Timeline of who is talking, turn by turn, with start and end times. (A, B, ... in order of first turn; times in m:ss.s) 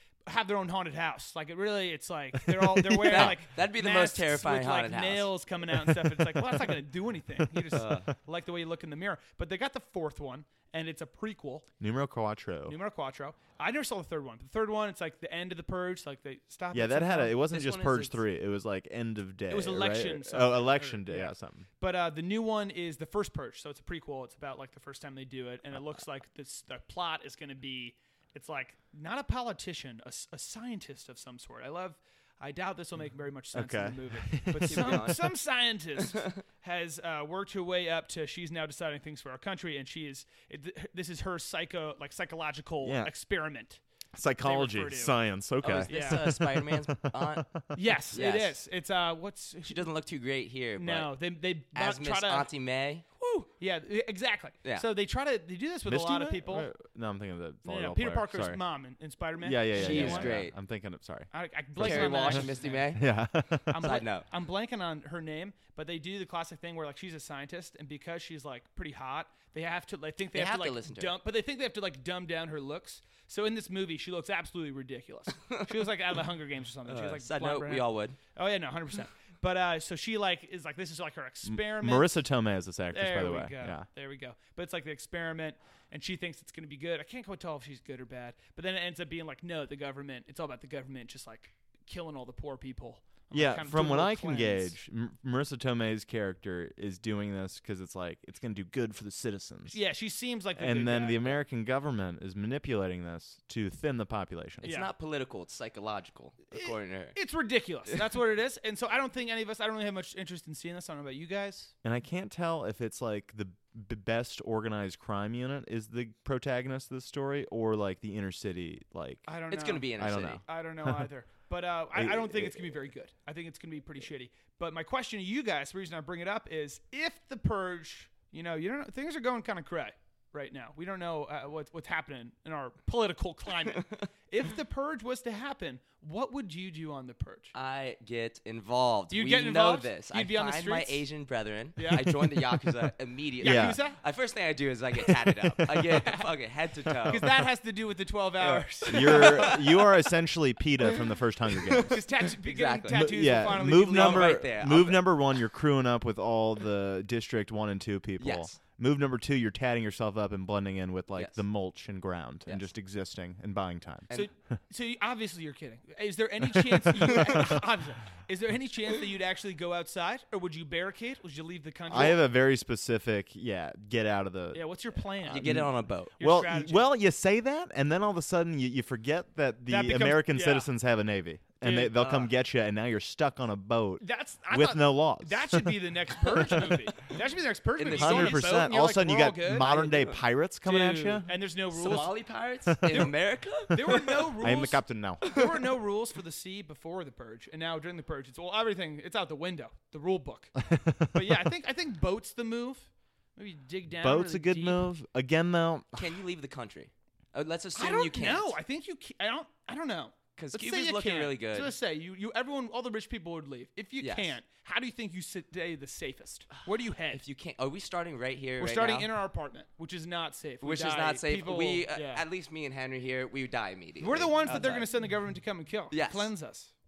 0:00.3-0:11.6 A
0:02.9-0:03.4 B
0:03.0-0:05.3 C
0:07.7-0:08.1 C
0:11.8-0:12.8 B
0:12.7-0:17.4 A
0:16.7-0:21.7 B
0:17.5-0:18.2 C
0:19.5-0:43.8 A
0:33.5-0:35.1 B
0:34.5-0:35.3 C
0:36.1-0:36.4 C
0:42.8-0:43.1 B
0:44.1-0:47.7 B
0:44.4-0:46.3 A
0:45.6-0:48.6 C
0:47.7-0:49.8 A
0:49.7-0:51.2 C
0:50.8-0:52.5 A
0:51.8-0:53.0 C
0:53.2-0:56.7 A
0:55.8-0:58.6 B
0:57.6-1:00.4 A
0:59.4-1:03.8 B
0:59.7-1:00.6 C
1:01.3-1:03.0 A
1:01.8-1:03.0 C
1:03.7-1:22.2 A
1:03.8-1:04.3 C
1:10.3-1:11.1 C
1:16.9-1:18.2 C
1:21.4-1:23.9 B
1:22.9-1:34.8 A
1:33.3-1:39.8 B
1:39.7-1:41.4 A
1:40.6-1:44.8 B
1:44.6-1:44.9 A
1:44.6-1:47.2 C
1:46.5-1:51.7 A
1:51.8-1:59.3 B
1:59.3-2:17.5 A
1:59.5-2:00.4 C
2:00.0-2:01.0 B
2:01.9-2:02.8 B
2:17.5-2:27.3 C
2:19.1-2:21.0 A
2:21.8-2:22.2 A
2:23.4-2:23.8 B
2:23.4-2:24.0 A
2:25.1-2:26.0 B
2:25.8-2:26.2 A
2:27.1-2:29.6 A
2:28.4-2:30.0 C
2:28.9-2:32.0 B
2:31.0-2:35.3 C
2:31.8-2:34.4 A
2:32.9-2:44.1 B
2:38.2-2:38.6 C
2:41.2-2:41.4 C
2:44.1-2:52.2 A
2:46.7-2:47.6 B
2:51.9-2:54.6 B
2:54.5-2:56.9 A
2:55.3-2:56.1 C
2:55.4-3:06.7 B
2:59.7-3:00.7 A
3:01.6-3:02.0 A
3:01.9-3:02.3 C
3:04.0-3:10.1 A
3:07.8-3:08.5 C
3:08.0-3:11.3 B
3:10.6-3:12.2 A
3:11.7-3:14.3 C
3:12.7-3:13.1 B
3:12.9-3:20.6 A
3:14.4-3:15.3 B
3:15.2-3:15.6 C
3:20.6-3:21.3 B
3:21.1-3:24.9 A
3:24.0-3:26.2 B
3:26.0-3:28.6 C
3:27.8-3:37.2 A
3:30.4-3:31.7 C
3:34.0-3:34.4 C
3:37.1-3:39.1 C
3:38.6-3:42.2 A
3:40.6-3:44.9 C
3:44.0-3:46.7 A
3:45.9-3:46.3 C